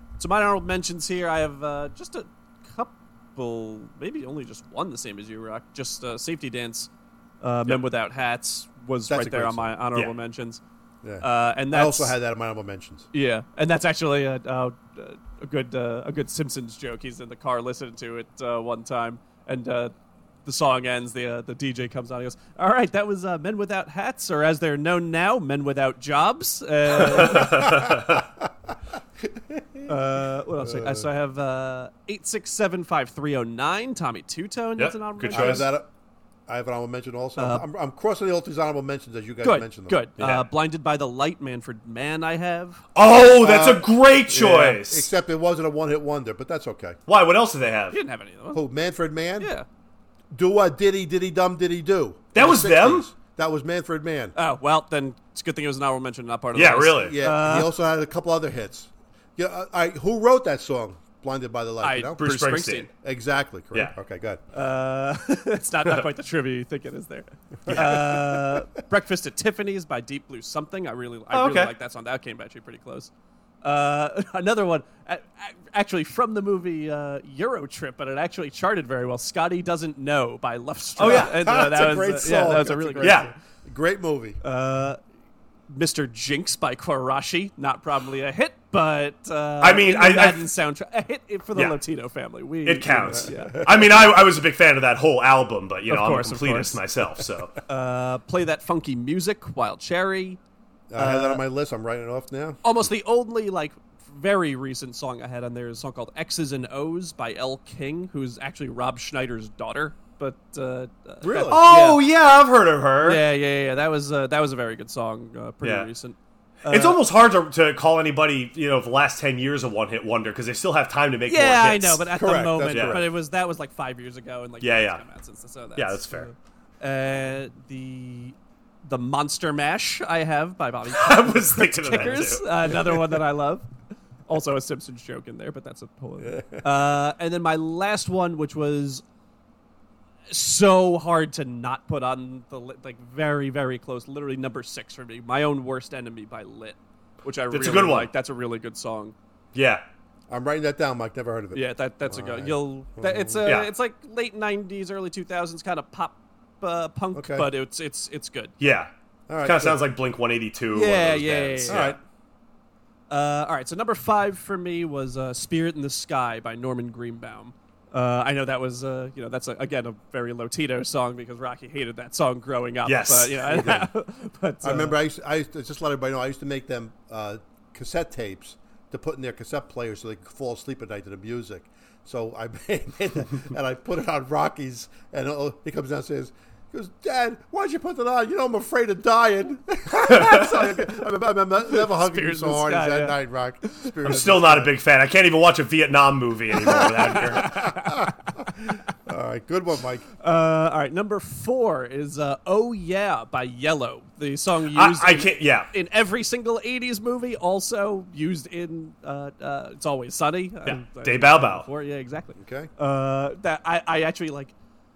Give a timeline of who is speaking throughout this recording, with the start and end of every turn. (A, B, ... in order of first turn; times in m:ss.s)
0:00.2-0:06.9 A
0:07.4-0:10.6 A
0:09.1-0:09.7 B
0:11.0-0:13.1 B
0:11.2-0:12.2 A
0:13.1-0:19.9 A
0:20.4-0:27.8 A
0:27.2-0:28.2 C
0:27.2-0:28.4 B
0:29.2-0:29.9 B
0:29.9-0:35.7 A
0:30.6-0:31.1 B
0:34.8-0:35.7 C
0:35.3-0:35.9 B
0:36.5-0:40.0 B
0:37.4-0:37.6 A
0:39.4-0:42.8 A
0:40.2-0:40.5 C
0:42.9-0:45.1 C
0:43.4-0:47.0 B
0:44.3-0:44.8 A
0:47.1-0:48.0 C
0:47.9-0:48.6 A
0:48.5-0:49.5 B
0:49.4-0:49.6 A
0:50.3-0:54.3 B
0:52.3-0:53.1 C
0:54.4-0:57.7 A
0:56.5-0:57.2 C
0:57.0-1:02.2 B
1:01.8-1:02.9 A
1:02.2-1:02.9 C
1:03.0-1:04.4 B
1:04.5-1:13.1 A
1:07.6-1:08.6 B
1:11.3-1:11.7 C
1:13.6-1:23.3 A
1:21.0-1:21.4 C
1:21.0-1:24.4 B
1:23.0-1:23.3 C
1:24.4-1:25.0 A
1:25.7-1:33.7 A
1:29.6-1:30.5 C
1:32.6-1:37.6 C
1:33.1-1:33.9 B
1:35.9-1:36.8 A
1:37.6-1:40.4 A
1:40.9-1:42.6 B
1:41.0-1:41.4 A
1:42.6-1:52.0 A
1:51.2-1:51.6 B
1:51.5-1:53.2 C
1:53.0-1:57.0 A
1:55.6-1:55.9 C
1:56.6-2:02.0 C
2:01.3-2:13.7 A
2:02.2-2:03.1 B
2:02.7-2:03.0 C
2:04.6-2:05.0 C
2:05.8-2:06.3 C
2:10.9-2:12.5 C
2:14.3-2:19.0 A
2:16.2-2:16.6 B
2:20.3-2:29.1 A
2:27.5-2:28.1 C
2:29.5-2:29.8 C
2:30.3-2:33.4 B
2:31.5-2:38.5 A
2:33.4-2:33.7 C
2:37.1-2:37.5 B
2:38.6-2:38.9 C
2:39.3-2:39.8 B
2:39.4-2:42.0 C
2:40.7-2:41.8 A
2:41.7-2:42.0 B
2:43.1-2:55.0 A
2:52.8-2:53.7 C
2:53.5-2:53.9 B
2:54.6-3:14.7 B
3:11.7-3:13.2 A
3:14.0-3:17.7 C
3:16.5-3:20.0 B
3:17.2-3:18.5 A
3:20.2-3:34.5 A
3:24.7-3:25.7 C
3:30.6-3:31.6 C
3:32.4-3:32.7 B